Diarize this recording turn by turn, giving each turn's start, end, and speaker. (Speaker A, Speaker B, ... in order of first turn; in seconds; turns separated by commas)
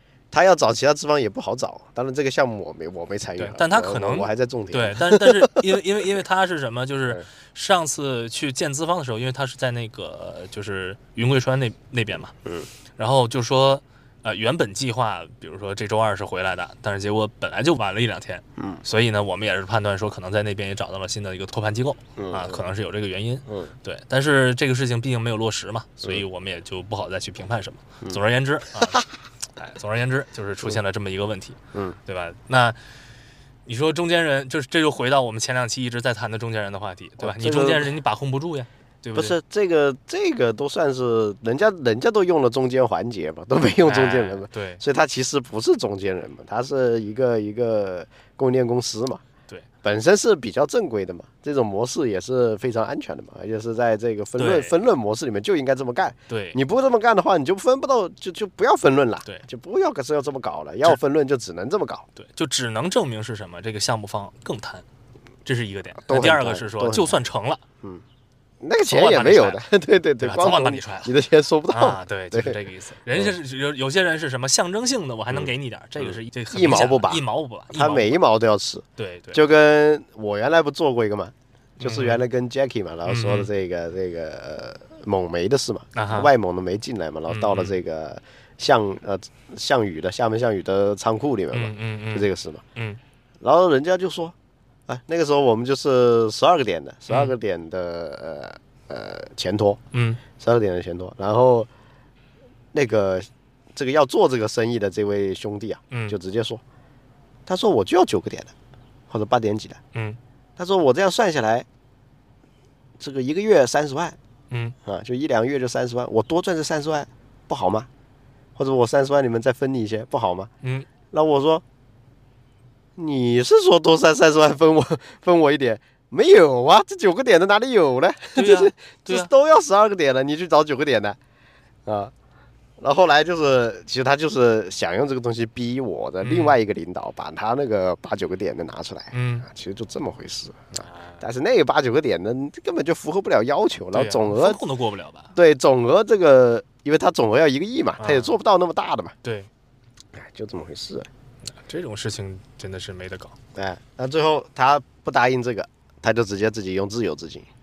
Speaker A: 0.3-5.6, Speaker B: 3.4-12.3, Speaker A: 12.4-12.7, Speaker B: 13.0-32.8, Speaker A: 18.6-18.8, Speaker A: 22.2-22.6, Speaker A: 23.5-23.7, Speaker A: 31.7-32.0, Speaker B: 33.7-39.4, Speaker A: 37.2-37.9, Speaker A: 39.1-49.2, Speaker B: 43.8-44.8, Speaker A: 49.8-62.1, Speaker B: 54.4-54.7, Speaker B: 56.3-56.6, Speaker B: 62.2-64.8, Speaker B: 65.5-67.6, Speaker A: 66.1-67.2, Speaker A: 68.6-72.6, Speaker B: 68.9-69.7, Speaker B: 70.2-71.1, Speaker B: 71.7-78.2, Speaker A: 76.0-92.6, Speaker B: 79.0-79.4, Speaker B: 81.8-82.2, Speaker B: 83.1-83.5, Speaker B: 86.0-86.3, Speaker B: 87.3-87.8, Speaker B: 91.5-93.0, Speaker A: 93.4-94.3, Speaker A: 94.9-99.8, Speaker B: 97.1-97.3, Speaker B: 99.9-100.2, Speaker A: 100.4-101.7, Speaker A: 102.7-106.6, Speaker B: 105.9-106.2, Speaker A: 107.5-108.5, Speaker A: 109.1-109.8, Speaker B: 109.9-110.2, Speaker A: 110.6-111.7, Speaker A: 113.0-114.2, Speaker B: 114.5-114.8, Speaker A: 114.8-117.9, Speaker A: 118.6-120.5, Speaker B: 120.6-120.9, Speaker A: 121.1-121.6, Speaker A: 123.0-131.2, Speaker B: 128.3-129.3, Speaker A: 131.9-132.1, Speaker A: 132.8-144.6, Speaker B: 136.2-136.6, Speaker B: 139.1-139.5, Speaker B: 140.7-141.2, Speaker B: 143.9-145.3, Speaker A: 145.3-149.1, Speaker B: 148.0-148.4, Speaker B: 149.2-149.5, Speaker A: 150.2-151.1, Speaker B: 151.6-153.4, Speaker A: 153.6-157.5